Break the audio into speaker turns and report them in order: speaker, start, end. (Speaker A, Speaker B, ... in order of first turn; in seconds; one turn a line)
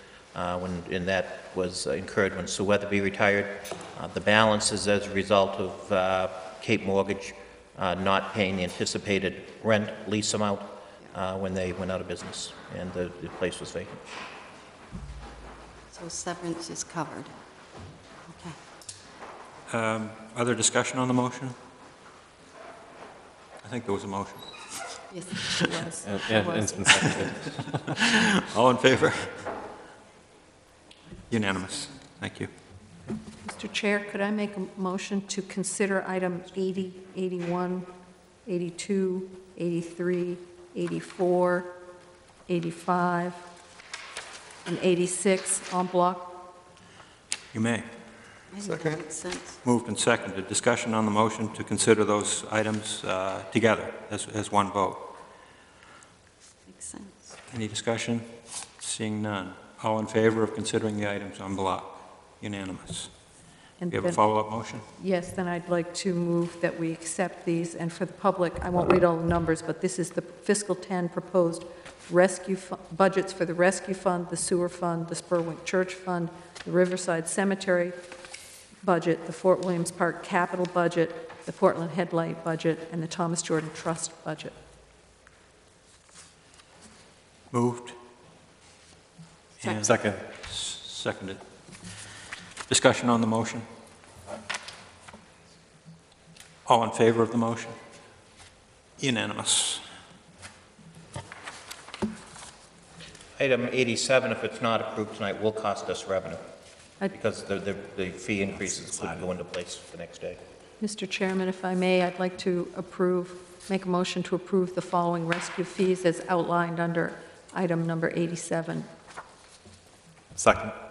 Speaker A: 0.3-14.0
Speaker B: 15.9-17.3
Speaker B: 18.3-18.6
Speaker C: 19.7-21.5
Speaker C: 23.6-24.5
Speaker B: 25.1-25.5
Speaker D: 25.5-26.9
Speaker E: 26.0-27.6
Speaker C: 27.5-29.4
Speaker C: 31.3-32.5
Speaker D: 33.4-37.9
Speaker D: 38.5-41.8
Speaker D: 42.5-43.4
Speaker D: 44.6-46.3
Speaker C: 47.5-47.9
Speaker B: 48.5-49.6
Speaker C: 49.6-55.1
Speaker B: 56.7-57.4
Speaker C: 57.5-58.2
Speaker C: 58.8-63.1
Speaker D: 63.8-64.2
Speaker C: 63.9-64.8
Speaker D: 65.0-78.0
Speaker D: 78.8-84.5
Speaker C: 87.5-87.9
Speaker C: 89.6-91.4
Speaker E: 89.8-90.2
Speaker C: 92.7-93.6
Speaker C: 96.7-97.8
Speaker C: 99.0-99.8
Speaker A: 103.4-106.4
Speaker A: 107.1-110.4
Speaker D: 110.8-118.9
Speaker E: 120.3-120.7